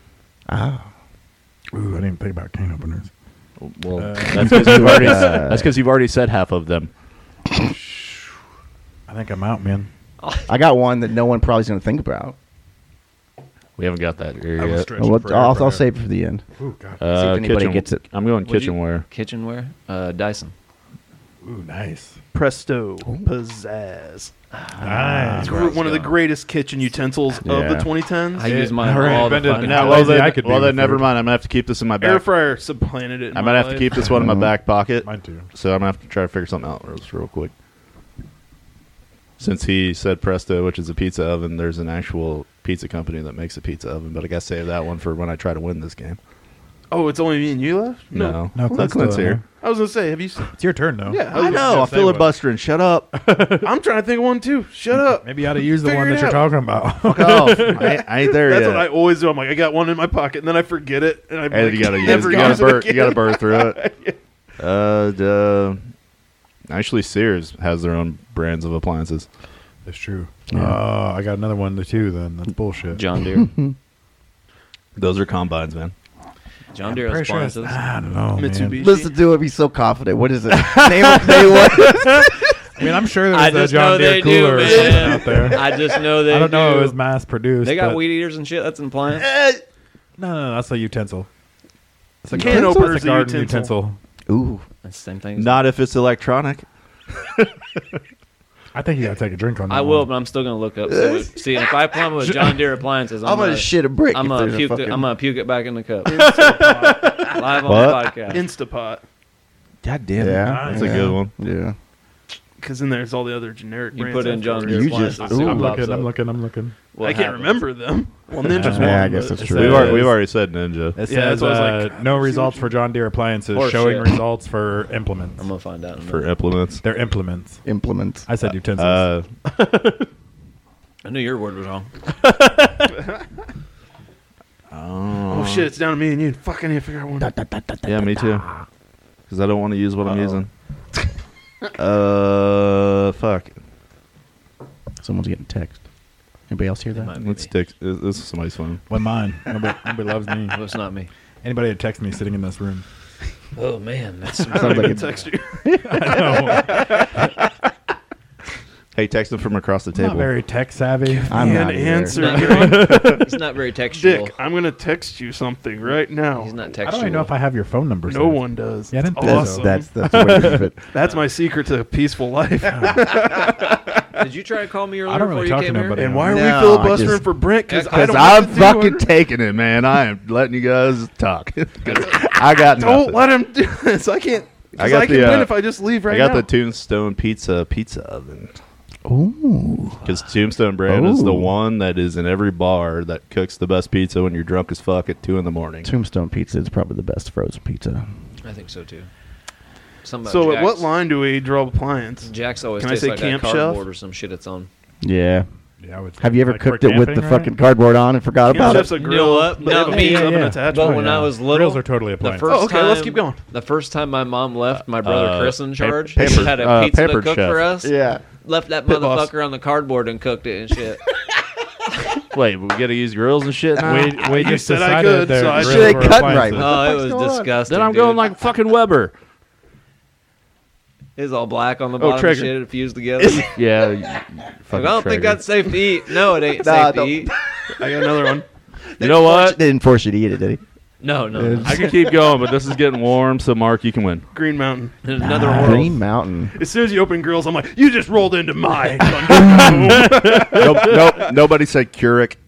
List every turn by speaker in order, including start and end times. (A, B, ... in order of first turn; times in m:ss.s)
0:00.5-0:00.9 A
0:01.7-0:03.1 B
0:03.6-0:06.9 C
0:04.0-0:05.4 B
0:04.4-0:05.7 A
0:07.5-0:08.4 B
0:09.1-0:09.9 B
0:10.2-0:10.5 D
0:10.5-0:12.4 A
0:13.8-0:14.9 C
0:14.6-0:15.9 B
0:15.0-0:16.4 A
0:16.6-0:17.0 B
0:17.0-0:19.0 C
0:17.1-0:18.0 A
0:18.4-0:20.5 D
0:21.4-0:22.2 B
0:22.3-0:24.3 E
0:24.6-0:26.3 D
0:24.8-0:25.5 A
0:24.8-0:25.6 B
0:25.4-0:28.5 E
0:27.4-0:27.9 A
0:28.3-0:30.3 D
0:28.4-0:31.1 B
0:29.4-0:32.3 C
0:32.0-0:34.0 E
0:33.3-0:37.5 C
0:34.1-0:34.5 A
0:35.0-0:35.5 B
0:39.4-0:46.2 C
0:46.9-0:52.3 E
0:48.1-0:49.4 C
0:48.5-0:49.4 B
0:50.4-0:52.3 B
0:51.3-0:53.2 C
0:53.1-0:53.7 B
0:53.6-0:56.4 E
0:55.2-0:57.9 B
0:57.0-0:58.9 C
0:57.6-1:04.2 E
1:01.5-1:03.8 C
1:02.1-1:02.6 A
1:04.6-1:05.8 C
1:06.7-1:09.3 C
1:09.9-1:13.0 B
1:10.5-1:10.8 A
1:12.9-1:13.5 D
1:13.4-1:13.8 A
1:15.0-1:15.9 C
1:16.7-1:17.8 D
1:16.9-1:18.8 B
1:18.4-1:19.2 E
1:18.8-1:22.5 A
1:20.5-1:28.0 B
1:23.3-1:27.0 D
1:24.7-1:25.8 A
1:27.6-1:29.3 D
1:29.3-1:29.6 A
1:30.2-1:31.3 B
1:32.2-1:34.0 B
1:32.3-1:33.8 E
1:32.4-1:32.9 A
1:34.3-1:34.6 A
1:34.8-1:35.7 D
1:35.4-1:37.6 C
1:38.8-1:40.1 B
1:39.7-1:48.4 D
1:40.9-1:41.5 A
1:43.2-1:45.1 A
1:46.0-1:47.6 E
1:47.6-1:48.2 C
1:48.3-1:49.0 E
1:49.8-1:51.3 C
1:50.2-1:51.8 A
1:50.4-1:51.2 B
1:52.6-1:55.3 E
1:53.9-1:56.1 D
1:54.6-1:55.8 A
1:55.2-1:56.8 B
1:56.9-1:57.7 D
1:57.0-2:00.0 E
1:58.5-2:00.2 B
1:58.5-2:00.1 A
1:58.9-2:01.0 C
2:01.0-2:05.4 B
2:01.1-2:02.7 E
2:03.5-2:04.2 D
2:05.4-2:06.3 D
2:06.0-2:06.8 C
2:06.8-2:07.6 B
2:07.6-2:08.3 A
2:08.3-2:10.0 B
2:08.8-2:09.3 C
2:11.0-2:11.9 D
2:12.2-2:12.9 B
2:14.7-2:15.7 C
2:15.3-2:17.3 E
2:17.2-2:18.6 A
2:17.8-2:18.5 C
2:19.3-2:20.5 C
2:20.1-2:20.4 E
2:21.8-2:23.6 C
2:25.0-2:25.8 A
2:26.5-2:27.1 A
2:27.0-2:27.5 D
2:27.2-2:28.8 C
2:28.9-2:30.6 B
2:30.5-2:31.1 D
2:31.4-2:32.8 B
2:33.6-2:35.2 D
2:34.5-2:37.1 E
2:34.5-2:35.0 A
2:35.7-2:37.0 B
2:39.0-2:40.3 C
2:39.9-2:41.7 B
2:41.1-2:44.4 D
2:41.3-2:42.5 A
2:41.3-2:43.2 E
2:42.5-2:43.2 B
2:42.9-2:43.2 C
2:43.9-2:46.5 E
2:46.4-2:47.3 D
2:46.8-2:50.7 B
2:48.1-2:49.9 E
2:49.2-2:50.8 A
2:50.4-2:54.0 E
2:51.0-2:51.2 D
2:52.6-2:53.0 B
2:54.1-2:56.0 D
2:55.1-2:56.5 B
2:56.0-2:59.1 E
2:56.3-2:57.3 A
2:57.7-2:58.5 D
2:57.9-3:03.2 C
3:01.9-3:06.5 E
3:04.8-3:08.5 C
3:09.0-3:10.1 A
3:10.0-3:15.9 C
3:10.9-3:11.5 A
3:15.8-3:18.0 A
3:18.4-3:19.1 D
3:20.0-3:20.9 D
3:20.3-3:23.8 E
3:22.2-3:24.7 D
3:25.0-3:25.5 A
3:25.8-3:27.5 B
3:26.2-3:29.0 A
3:28.5-3:31.2 E
3:28.5-3:37.9 D
3:29.7-3:32.6 B
3:32.4-3:33.4 E
3:35.0-3:37.7 C
3:36.2-3:36.5 A
3:37.8-3:38.2 A
3:38.4-3:41.0 D
3:38.9-3:39.3 E
3:42.3-3:44.2 C
3:43.8-3:46.7 B
3:44.2-3:46.4 E
3:45.5-3:47.5 A
3:46.6-3:48.3 D
3:47.7-3:49.1 C
3:51.2-3:53.5 D
3:52.0-3:52.5 E
3:53.2-3:53.5 E
3:53.4-3:55.4 C
3:54.7-3:57.3 D
3:56.6-3:57.3 A
3:57.8-3:58.4 E
3:59.0-4:00.6 A
3:59.0-3:59.6 C
4:01.0-4:01.8 D
4:01.4-4:01.8 B
4:01.6-4:04.3 C
4:04.3-4:04.9 E
4:05.0-4:06.0 D
4:05.2-4:06.5 A
4:06.6-4:11.4 E
4:09.0-4:10.0 A
4:10.2-4:12.4 C